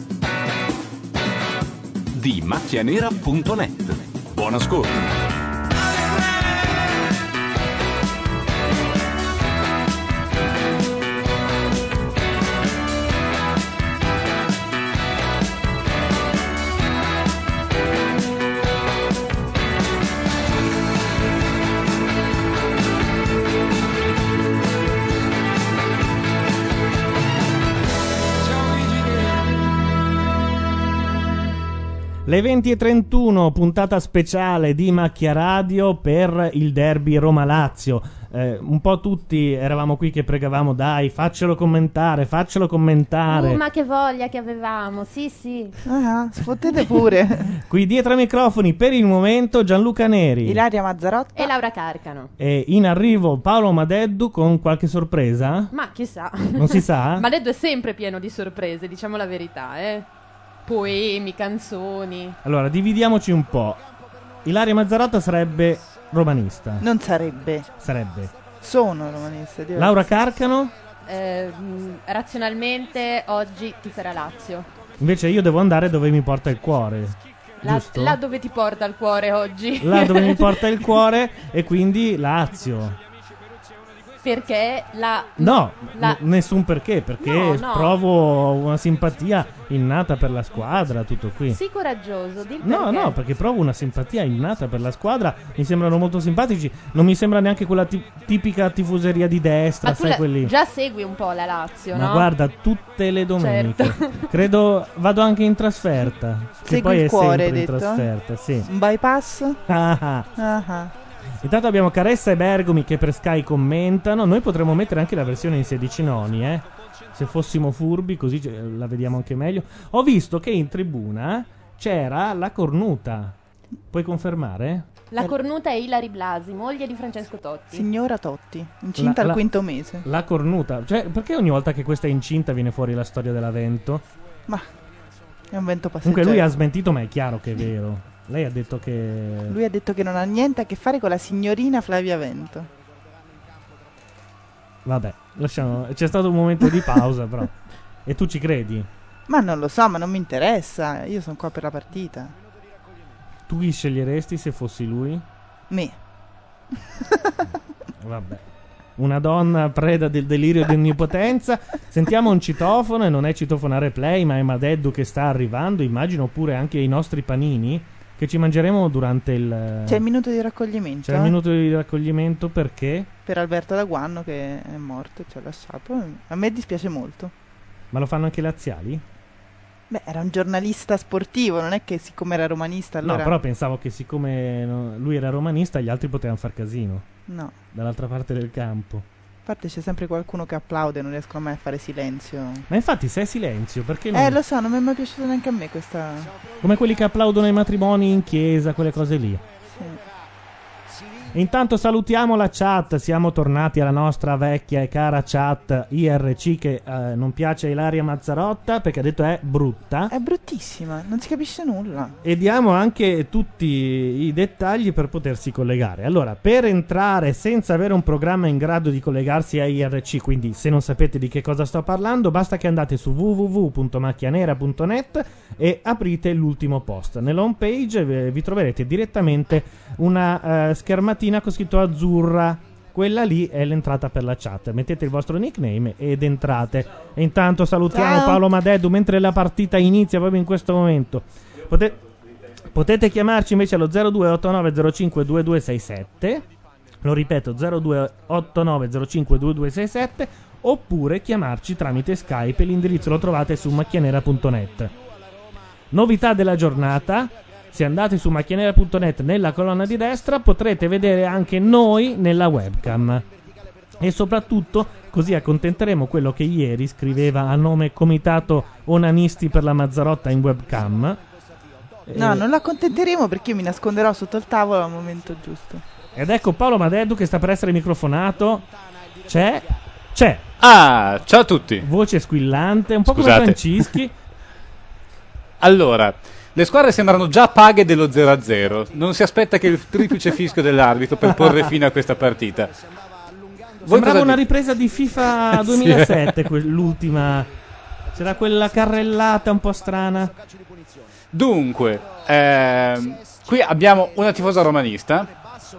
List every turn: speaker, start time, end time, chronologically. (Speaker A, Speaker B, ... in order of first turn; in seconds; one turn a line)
Speaker A: 2.1-5.4
Speaker B: 32.2-43.6
Speaker C: 43.3-45.8
Speaker D: 45.9-47.5
Speaker B: 47.6-50.6
Speaker D: 50.4-51.5
Speaker C: 51.3-52.3
Speaker B: 52.4-55.7
Speaker C: 55.7-60.1
Speaker B: 56.5-57.2
Speaker C: 60.6-62.4
Speaker B: 62.4-63.8
Speaker B: 64.4-66.8
Speaker D: 66.8-67.7
Speaker B: 67.8-68.3
Speaker D: 68.6-70.1
Speaker B: 69.8-70.7
Speaker C: 71.0-74.7
Speaker B: 75.0-78.2
Speaker C: 77.6-80.6
Speaker B: 79.8-83.0
Speaker C: 84.2-86.2
Speaker B: 85.4-91.6
Speaker C: 87.2-88.0
Speaker C: 91.5-93.2
Speaker B: 92.6-100.5
Speaker C: 99.8-102.3
Speaker B: 101.9-108.7
Speaker C: 103.4-104.3
Speaker D: 106.7-108.0
Speaker D: 108.7-109.6
Speaker B: 109.7-110.3
Speaker D: 110.4-110.9
Speaker B: 111.4-123.3
Speaker B: 123.9-124.9
Speaker C: 125.1-127.8
Speaker D: 127.7-130.0
Speaker B: 129.0-129.4
Speaker B: 130.0-134.0
Speaker D: 135.5-136.4
Speaker B: 136.0-139.6
Speaker D: 139.5-142.7
Speaker B: 144.8-147.5
Speaker B: 148.1-148.9
Speaker D: 149.3-152.3
Speaker B: 153.5-155.2
Speaker D: 155.7-155.9
Speaker D: 157.1-157.4
Speaker B: 158.0-158.4
Speaker B: 159.0-170.0
Speaker D: 169.9-171.3
Speaker B: 171.0-173.1
Speaker D: 173.2-177.3
Speaker B: 177.9-179.0
Speaker D: 179.9-183.3
Speaker B: 183.0-187.1
Speaker D: 187.3-187.5
Speaker B: 187.7-189.1
Speaker D: 189.4-192.6
Speaker B: 192.7-194.4
Speaker D: 194.1-196.3
Speaker B: 196.6-199.4
Speaker B: 201.3-210.1
Speaker D: 210.1-212.2
Speaker B: 212.2-242.0
Speaker D: 237.9-238.4
Speaker B: 242.7-246.4
Speaker B: 247.0-254.9
Speaker B: 255.9-263.2
Speaker B: 264.0-271.2
Speaker B: 272.1-272.4
Speaker D: 272.1-275.8
Speaker B: 276.1-278.6
Speaker B: 279.2-280.4
Speaker E: 280.6-281.8
Speaker B: 281.8-284.1
Speaker E: 283.1-283.9
Speaker E: 285.6-292.7
Speaker E: 293.8-294.4
Speaker B: 293.8-297.5
Speaker E: 295.5-296.3
Speaker B: 298.1-300.3
Speaker E: 301.3-305.3